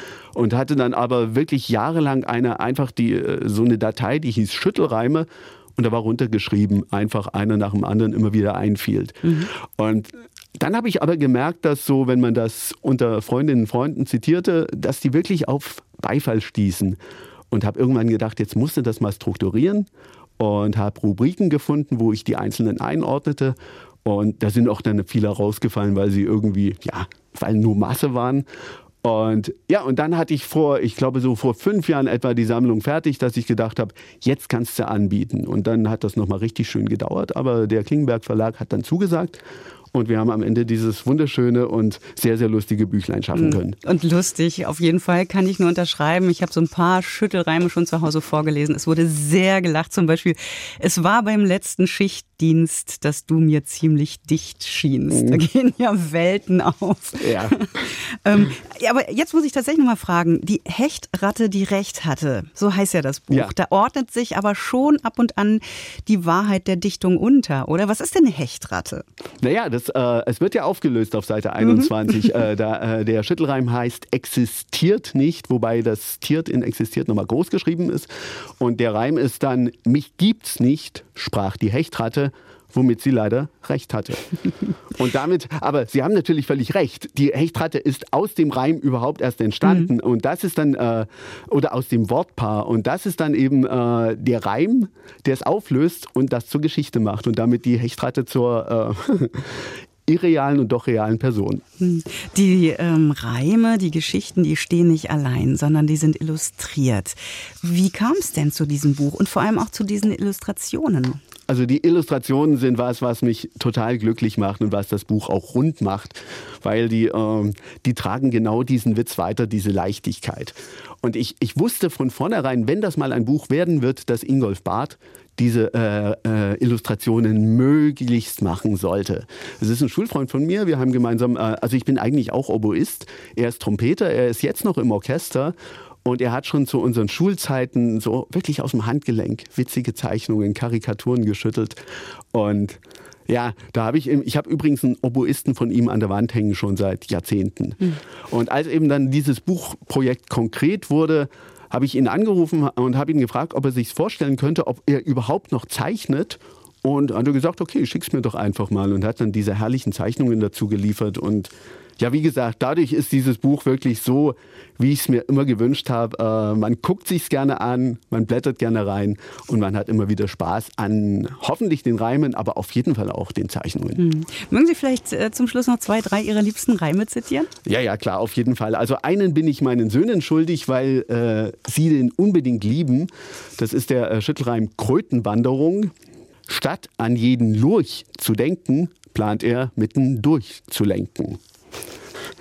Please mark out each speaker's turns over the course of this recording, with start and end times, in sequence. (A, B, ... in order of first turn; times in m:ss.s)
0:00.3-0:17.0 A
0:09.2-0:09.5 B
0:17.5-0:19.9 A
0:20.4-0:28.4 A
0:29.0-0:39.4 A
0:39.9-0:43.8 A
0:43.3-1:09.0 B
0:55.1-0:55.4 A
0:57.2-0:57.8 A
1:03.3-1:03.5 A
1:09.4-1:24.3 A
1:11.6-1:11.9 B
1:25.0-1:39.6 A
1:29.6-1:29.9 B
1:40.1-1:41.6 A
1:41.8-1:51.2 B
1:51.5-2:21.8 A
2:22.3-2:54.0 A
2:54.0-2:57.5 B
2:57.6-3:05.9 A
3:06.5-3:11.4 A